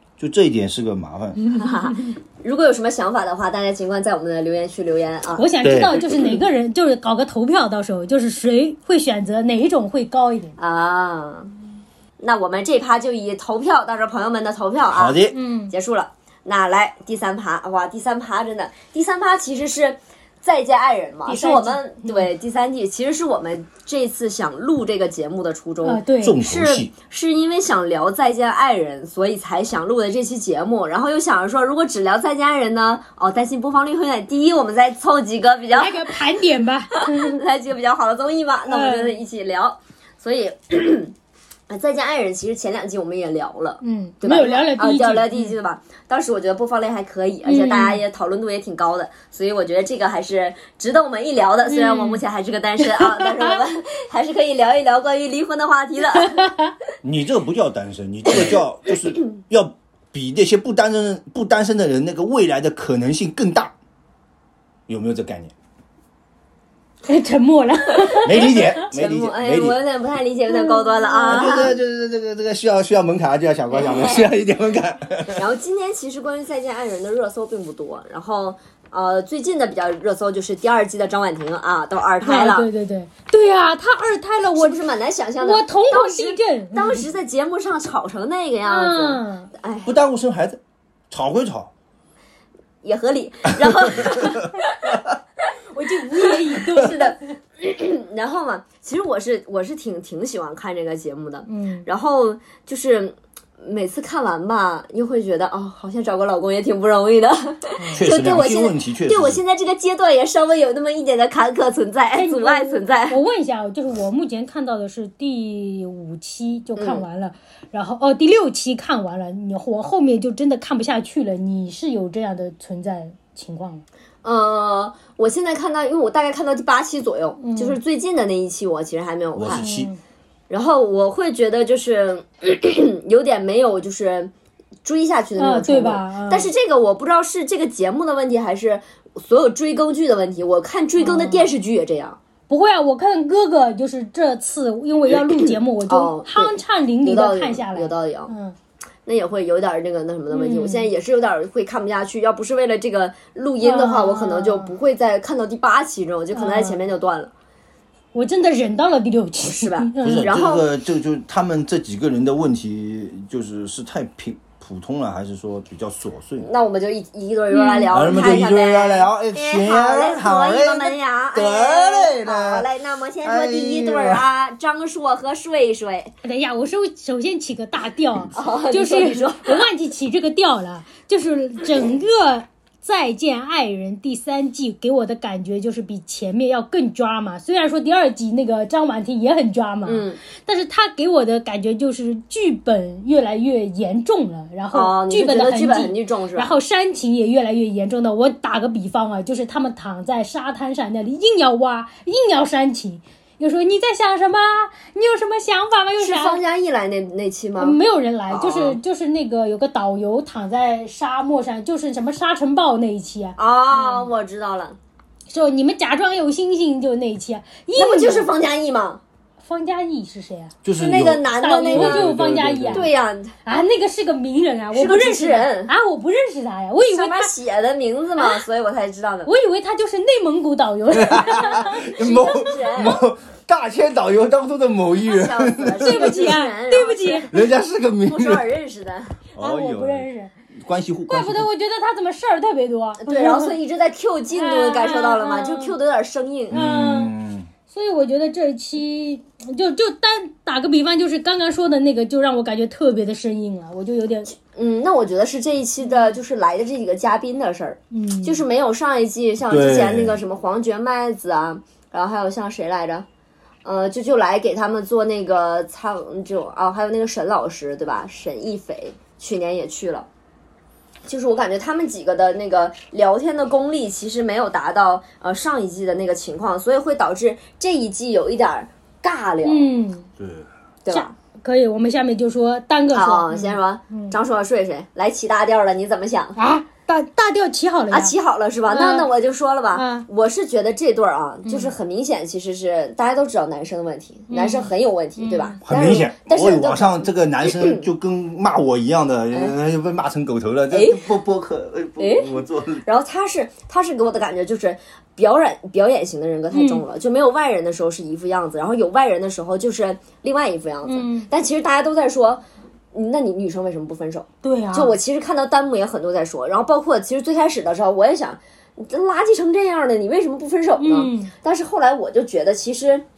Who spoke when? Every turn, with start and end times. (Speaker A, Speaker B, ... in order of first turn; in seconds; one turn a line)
Speaker A: 0.2-1.4
Speaker B: 1.4-2.1
Speaker C: 1.5-5.5
Speaker B: 5.3-10.6
Speaker A: 5.6-6.0
Speaker C: 10.6-11.5
Speaker C: 12.2-36.2
Speaker A: 14.9-15.4
Speaker B: 15.3-15.7
Speaker B: 21.3-22.3
Speaker B: 25.8-26.4
Speaker A: 26.2-26.9
Speaker B: 35.7-37.4
Speaker C: 36.9-41.1
Speaker B: 38.7-39.2
Speaker C: 41.7-56.5
Speaker B: 43.8-45.5
Speaker B: 47.5-48.0
Speaker B: 51.6-52.2
Speaker B: 52.8-53.6
Speaker A: 57.0-63.7
Speaker A: 64.9-65.5
Speaker B: 67.0-68.7
Speaker C: 68.0-71.7
Speaker A: 68.2-69.8
Speaker B: 70.5-71.7
Speaker A: 71.2-75.4
Speaker C: 73.7-74.3
Speaker C: 75.3-82.7
Speaker B: 82.2-84.8
Speaker C: 84.5-89.9
Speaker B: 85.4-87.1
Speaker B: 88.6-89.5
Speaker A: 89.8-90.6
Speaker A: 91.1-91.7
Speaker C: 92.8-95.0
Speaker A: 94.0-94.3
Speaker B: 95.7-97.2
Speaker C: 96.2-113.2
Speaker B: 101.5-101.8
Speaker B: 107.8-108.0
Speaker A: 107.9-109.4
Speaker B: 112.1-123.8
Speaker C: 116.8-117.0
Speaker C: 124.2-129.7
Speaker B: 127.4-127.8
Speaker A: 129.3-129.9
Speaker B: 129.5-130.0
Speaker C: 130.5-134.3
Speaker C: 134.8-142.2
Speaker B: 135.4-136.5
Speaker B: 141.0-141.5
Speaker B: 142.5-148.6
Speaker C: 145.9-148.3
Speaker C: 149.1-157.3
Speaker B: 150.3-150.9
Speaker B: 153.6-154.7
Speaker B: 156.3-156.8
Speaker B: 158.1-160.3
Speaker C: 159.4-160.6
Speaker A: 160.0-166.5
Speaker C: 166.4-176.1
Speaker B: 167.5-168.3
Speaker A: 167.9-172.7
Speaker A: 173.2-174.2
Speaker B: 176.2-206.4
Speaker C: 178.3-179.7
Speaker C: 189.8-190.2
Speaker C: 194.7-196.5
Speaker C: 206.0-207.8
Speaker B: 207.6-214.1
Speaker C: 208.3-208.8
Speaker C: 213.4-214.8
Speaker B: 215.3-218.3
Speaker C: 217.8-219.0
Speaker B: 219.4-220.6
Speaker A: 220.6-222.9
Speaker C: 220.7-222.1
Speaker B: 221.3-222.9
Speaker C: 222.7-223.4
Speaker B: 223.4-227.3
Speaker C: 224.7-225.7
Speaker C: 226.8-229.3
Speaker B: 229.2-231.9
Speaker A: 230.9-236.1
Speaker C: 231.7-233.0
Speaker C: 235.0-237.3
Speaker B: 235.8-237.3
Speaker A: 237.3-238.4
Speaker C: 238.0-239.2
Speaker A: 239.3-241.5
Speaker B: 239.4-240.3
Speaker B: 241.1-243.6
Speaker C: 243.0-246.6
Speaker B: 244.3-245.7
Speaker A: 246.5-247.5
Speaker B: 246.5-247.1
Speaker B: 247.7-254.3
Speaker C: 254.4-263.1
Speaker B: 257.9-258.4
Speaker A: 259.5-260.2
Speaker C: 263.6-270.1
Speaker C: 271.1-279.7
Speaker B: 279.4-280.1
Speaker A: 280.2-280.5
Speaker C: 280.8-281.1
Speaker B: 280.9-284.2
Speaker C: 282.9-286.4
Speaker B: 286.4-288.1
Speaker C: 287.9-297.8
Speaker B: 288.7-289.1
Speaker B: 289.7-290.1
Speaker B: 291.4-291.7
Speaker B: 294.3-295.6
Speaker A: 295.6-302.8
Speaker C: 300.7-301.1
Speaker C: 302.0-302.3
Speaker C: 302.8-312.4
Speaker B: 306.5-306.8
Speaker B: 310.8-311.3
Speaker C: 312.9-323.0
Speaker B: 314.4-314.9
Speaker B: 320.8-321.3